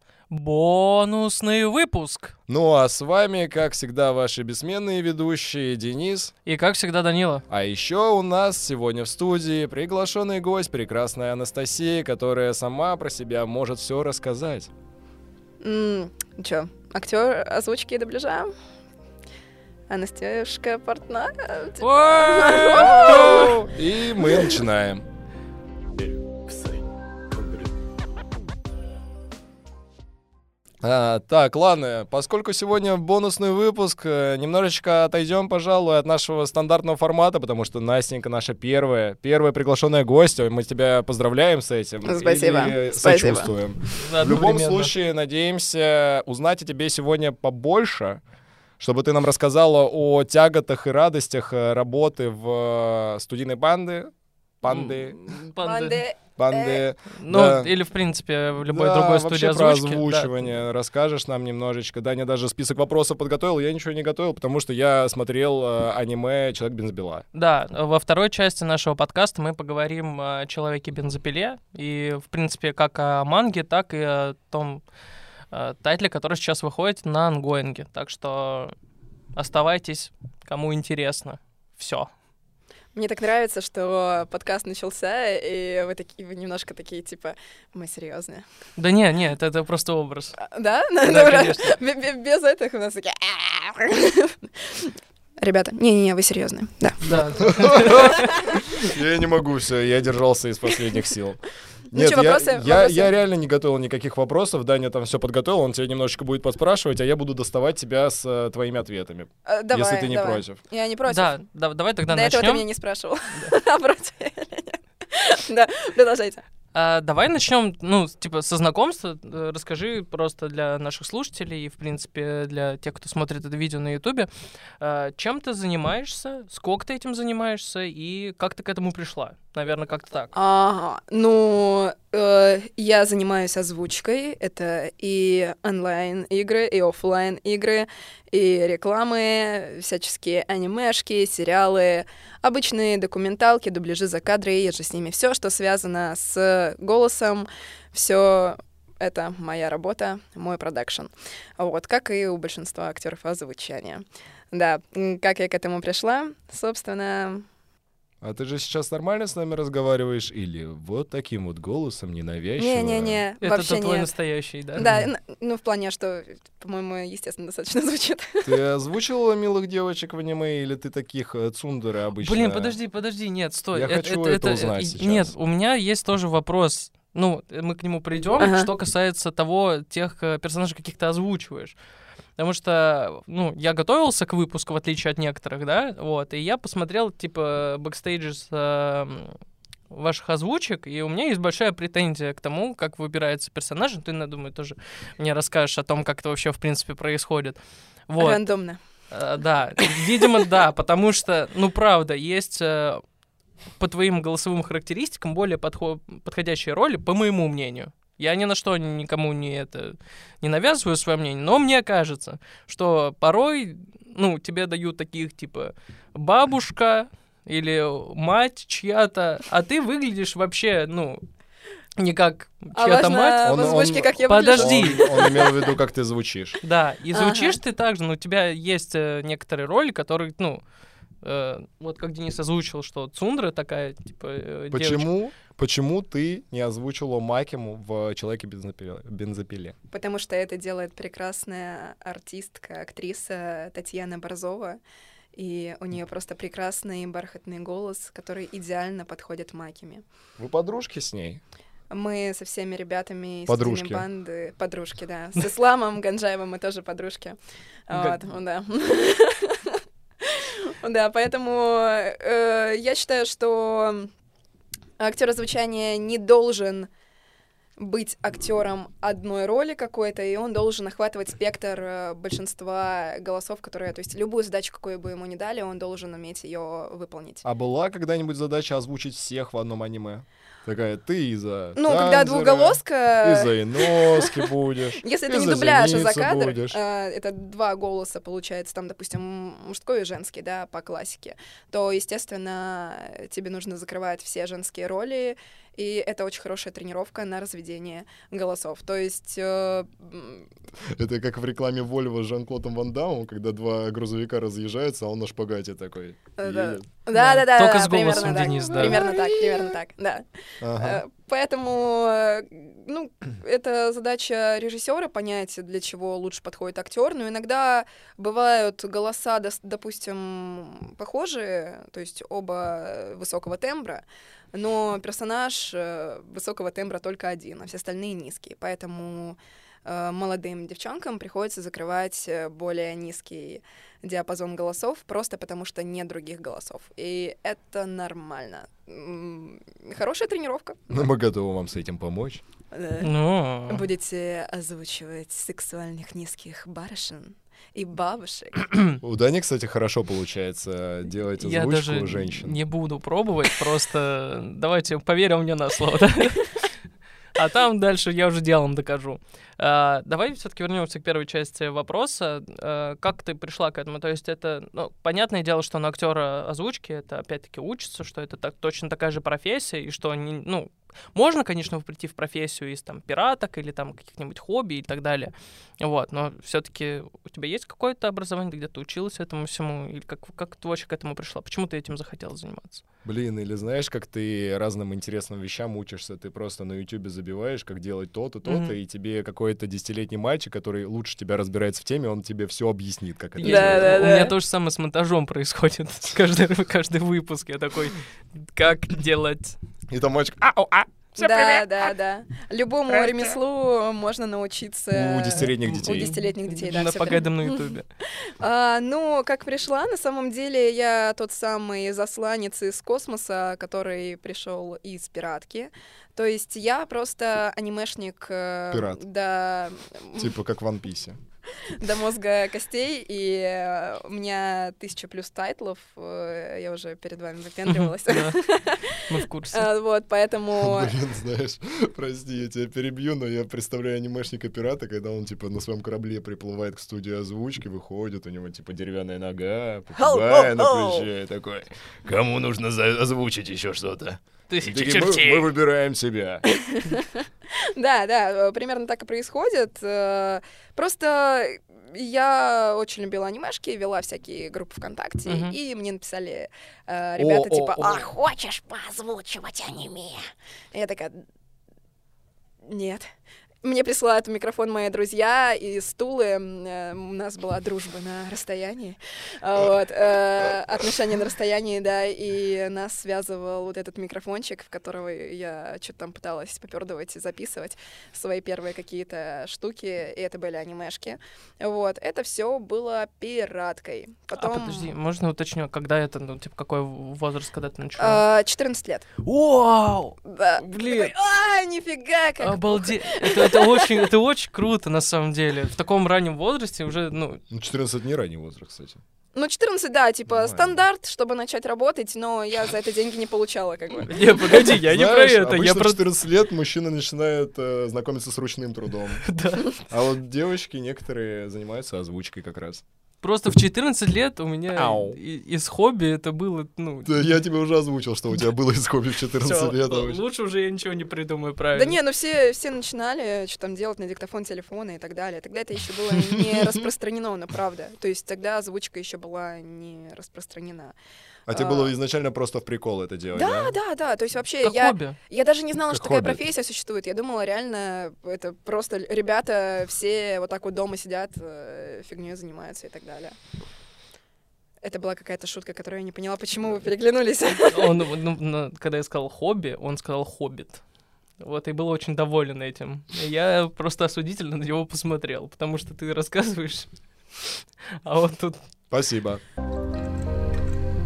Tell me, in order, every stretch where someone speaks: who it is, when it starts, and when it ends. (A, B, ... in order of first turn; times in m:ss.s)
0:00.3-0:02.4 A
0:02.5-0:06.3 B
0:06.5-0:07.4 A
0:07.5-0:14.7 B
0:15.6-0:18.5 C
0:19.9-0:23.6 C
0:21.8-0:23.5 A
0:22.7-0:25.0 B
0:24.2-0:24.5 C
0:30.8-0:48.2 B
0:42.0-0:43.5 C
0:44.0-0:44.9 A
0:48.8-0:55.2 B
0:54.6-0:56.0 A
0:55.6-0:56.8 C
0:56.4-0:57.7 B
0:57.2-1:00.5 A
0:58.7-1:07.2 B
1:07.3-1:14.8 A
1:15.5-1:18.7 A
1:19.4-1:22.1 A
1:23.0-1:28.5 C
1:28.8-1:30.4 A
1:30.4-1:38.6 C
1:31.0-1:31.8 A
1:37.0-1:38.3 A
1:37.4-1:50.6 B
1:41.9-1:43.1 C
1:49.5-1:51.4 C
1:51.1-1:52.7 A
1:52.1-1:56.4 C
1:56.7-2:10.3 A
2:10.3-2:37.5 C
2:38.2-2:43.2 B
2:42.6-2:44.1 C
2:43.4-2:45.0 A
2:44.8-2:48.6 C
2:48.4-2:52.8 B
2:52.2-3:01.8 A
2:53.7-2:55.3 B
2:58.4-2:58.7 C
3:02.4-3:09.4 A
3:09.9-3:17.6 A
3:18.1-3:18.4 A
3:18.2-3:18.8 C
3:19.1-3:23.0 A
3:20.0-3:20.2 C
3:23.8-3:41.2 A
3:42.0-3:43.6 A
3:42.7-3:45.7 C
3:43.4-3:46.6 B
3:44.3-3:45.3 A
3:46.6-3:50.6 A
3:47.1-3:47.6 C
3:51.2-3:55.1 A
3:54.7-3:59.8 B
3:59.9-4:04.8 C
4:05.4-4:10.0 C
4:10.4-4:11.4 B
4:11.9-4:17.4 C
4:13.5-4:14.1 B
4:17.9-4:24.1 C
4:17.9-4:18.2 A
4:25.0-4:26.9 C
4:27.8-4:37.4 C
4:37.4-4:46.8 B
4:41.8-5:00.5 C
5:00.9-5:06.8 B
5:06.4-5:41.1 C
5:07.1-5:09.1 A
5:08.4-5:09.6 B
5:10.6-5:11.0 B
5:40.9-5:42.4 B
5:42.7-5:43.1 C
5:43.0-5:43.8 A
5:43.7-5:48.7 C
5:49.0-5:52.6 B
5:51.4-5:56.7 A
5:57.3-6:22.8 A
6:23.0-6:34.0 B
6:28.5-6:28.7 A
6:33.4-6:39.6 A
6:33.4-6:34.4 C
6:39.9-6:41.8 B
6:41.2-7:00.4 C
6:42.9-6:43.3 B
6:44.9-6:46.1 B
6:45.6-6:47.8 A
6:58.7-6:59.0 B
7:00.2-7:01.2 B
7:01.6-7:11.0 C
7:07.7-7:08.4 A
7:08.9-7:09.7 A
7:10.6-7:26.4 B
7:20.0-7:21.1 C
7:24.5-7:25.5 A
7:26.4-7:41.2 C
7:35.3-7:35.6 A
7:37.2-7:38.0 B
7:42.6-7:43.1 C
7:43.6-8:04.9 C
8:04.4-8:08.2 A
8:08.0-8:09.1 C
8:09.2-8:11.1 A
8:10.2-8:14.1 C
8:12.4-8:17.4 A
8:17.5-8:19.0 B
8:19.4-8:24.5 C
8:20.3-8:20.8 B
8:24.1-8:26.0 A
8:24.7-8:29.2 B
8:29.2-8:29.7 A
8:29.9-8:32.8 B
8:33.2-8:37.2 A
8:34.7-8:35.2 B
8:37.0-8:40.2 B
8:39.4-8:42.0 A
8:41.7-8:51.0 C
8:46.1-8:46.8 B
8:51.5-8:53.8 B
8:51.5-8:51.9 C
8:53.3-9:03.4 C
8:54.6-8:55.2 A
8:55.9-8:56.4 B
9:04.8-9:08.1 C
9:07.7-9:10.8 A
9:11.4-9:18.6 A
9:18.9-9:19.4 B